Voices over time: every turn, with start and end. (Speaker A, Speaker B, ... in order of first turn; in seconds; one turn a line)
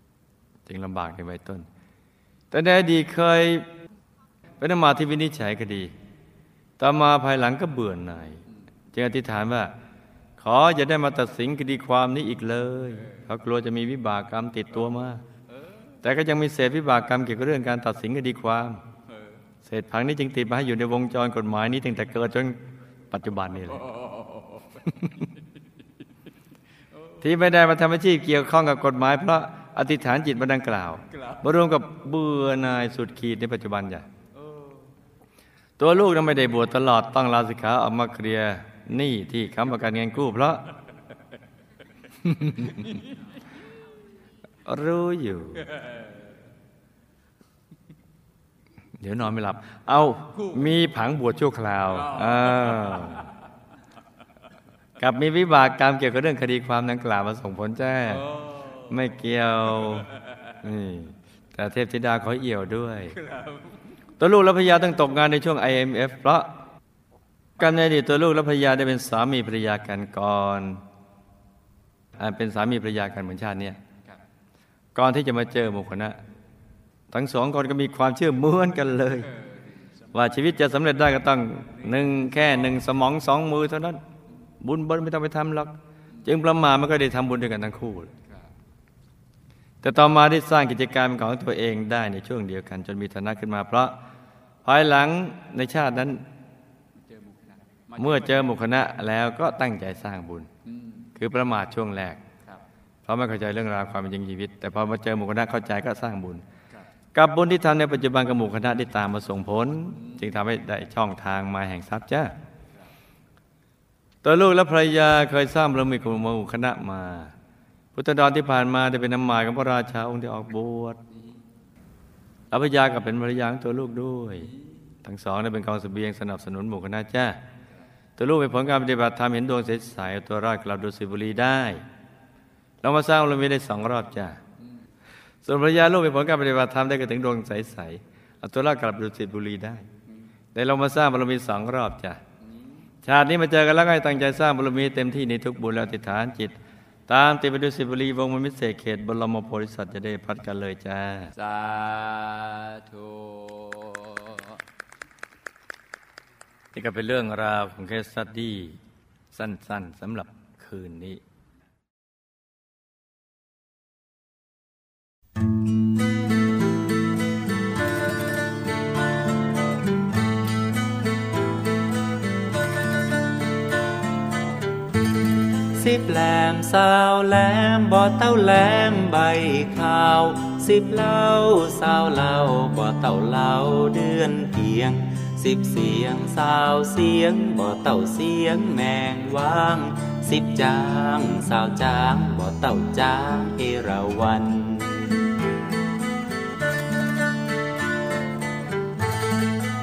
Speaker A: 0.7-1.7
Speaker A: 2.5-3.7
Speaker A: 4.6-5.9
Speaker A: 6.8-9.7
Speaker A: 10.4-15.2
Speaker B: 15.5-15.9
Speaker A: 16.0-18.8
Speaker B: 19.1-19.4
Speaker A: 19.6-23.9
Speaker B: 23.7-25.0
Speaker A: 24.9-25.2
Speaker A: 27.2-34.1
Speaker B: 31.1-31.4
Speaker B: 34.4-34.9
Speaker A: 35.8-40.7
Speaker A: 42.3-42.9
Speaker B: 42.6-43.1
Speaker A: 44.6-45.7
Speaker B: 45.7-46.3
Speaker A: 49.0-53.3
Speaker B: 50.4-50.8
Speaker B: 51.9-53.3
Speaker A: 55.0-58.3
Speaker B: 58.1-59.0
Speaker A: 58.9-63.2
Speaker B: 59.8-60.5
Speaker B: 63.2-63.8
Speaker A: 64.2-66.5
Speaker A: 67.6-70.8
Speaker A: 72.2-73.8
Speaker A: 75.0-76.2
Speaker A: 77.1-79.3
Speaker B: 79.3-80.4
Speaker A: 80.1-84.0
Speaker B: 81.8-82.7
Speaker A: 84.6-85.7
Speaker A: 86.2-88.1
Speaker B: 88.2-88.5
Speaker A: 89.8-94.0
Speaker A: 94.7-96.2
Speaker B: 97.0-98.6
Speaker A: 98.0-100.5
Speaker B: 100.6-101.1
Speaker A: 101.2-102.2
Speaker A: 103.0-106.4
Speaker A: 107.1-112.3
Speaker B: 110.0-110.2
Speaker A: 114.2-117.3
Speaker A: 118.0-121.0
Speaker A: 122.5-124.5
Speaker A: 125.0-127.4
Speaker A: 128.2-131.8
Speaker A: 132.8-134.4
Speaker A: 135.4-139.9
Speaker A: 140.6-142.2
Speaker B: 142.4-142.9
Speaker A: 143.0-146.6
Speaker A: 147.1-151.3
Speaker B: 151.3-154.6
Speaker A: 156.7-158.8
Speaker A: 159.3-161.2
Speaker C: 175.7-195.3